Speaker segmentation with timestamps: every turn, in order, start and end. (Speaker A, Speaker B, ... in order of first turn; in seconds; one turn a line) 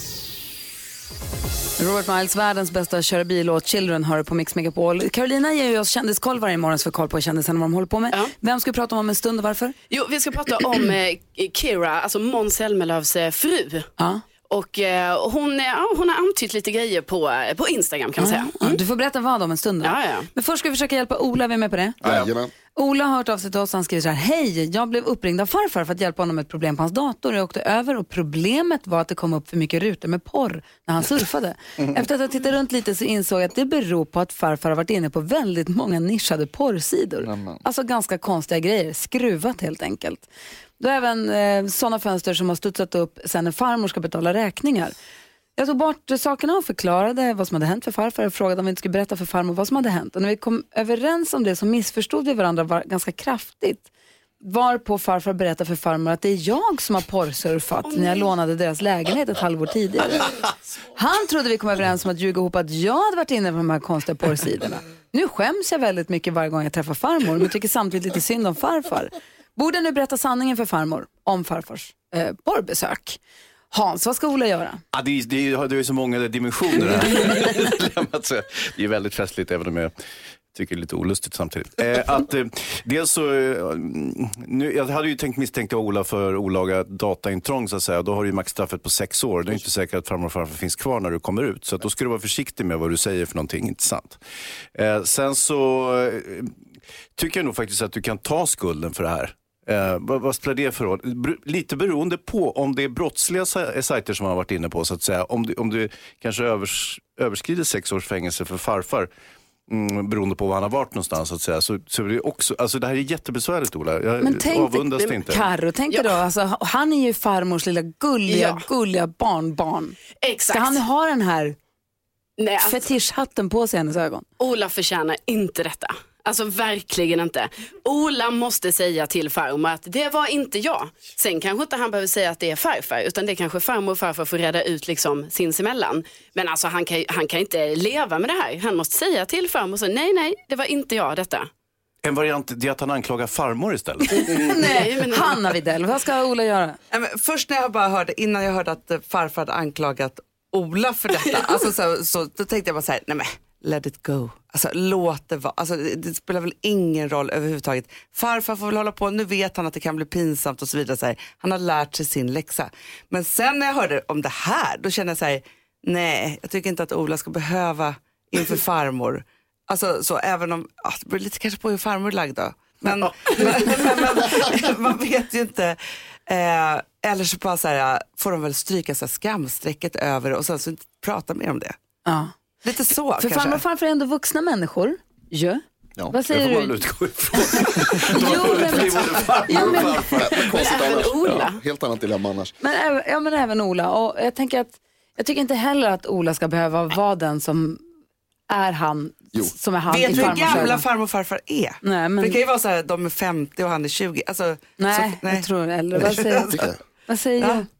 Speaker A: 1.8-9.8
Speaker B: 9.9-13.9
Speaker A: 14.0-14.2
Speaker B: 14.5-18.8
Speaker A: 18.2-22.0
Speaker B: 19.8-20.3
Speaker C: 22.0-22.5
Speaker A: 22.7-40.3
Speaker A: 40.8-44.9
Speaker A: 45.6-53.9
Speaker A: 54.4-60.3
Speaker B: 57.8-58.2
Speaker A: 60.9-73.2
Speaker A: 73.7-74.8
Speaker D: 74.9-79.9
Speaker D: 80.5-94.2
Speaker D: 94.7-96.5
Speaker D: 97.1-109.1
Speaker D: 109.7-115.5
Speaker A: 114.2-120.0
Speaker B: 118.3-118.6
Speaker B: 120.2-120.8
Speaker A: 120.5-121.6
Speaker B: 122.4-122.8
Speaker A: 122.6-124.2
Speaker B: 124.4-141.5
Speaker D: 142.0-144.5
Speaker A: 144.1-146.8
Speaker B: 144.6-145.4
Speaker E: 146.9-181.8
Speaker D: 173.2-174.0
Speaker A: 182.1-182.3
Speaker E: 182.6-183.6
Speaker A: 183.2-186.8
Speaker D: 186.0-191.4
Speaker A: 187.4-190.1
Speaker C: 189.5-192.5
Speaker B: 190.5-191.6
Speaker A: 192.6-197.8
Speaker A: 198.5-200.8
Speaker E: 199.9-206.7
Speaker C: 200.1-200.7
Speaker A: 201.8-202.4
Speaker A: 204.8-207.7
Speaker C: 206.5-206.8
Speaker E: 207.4-207.7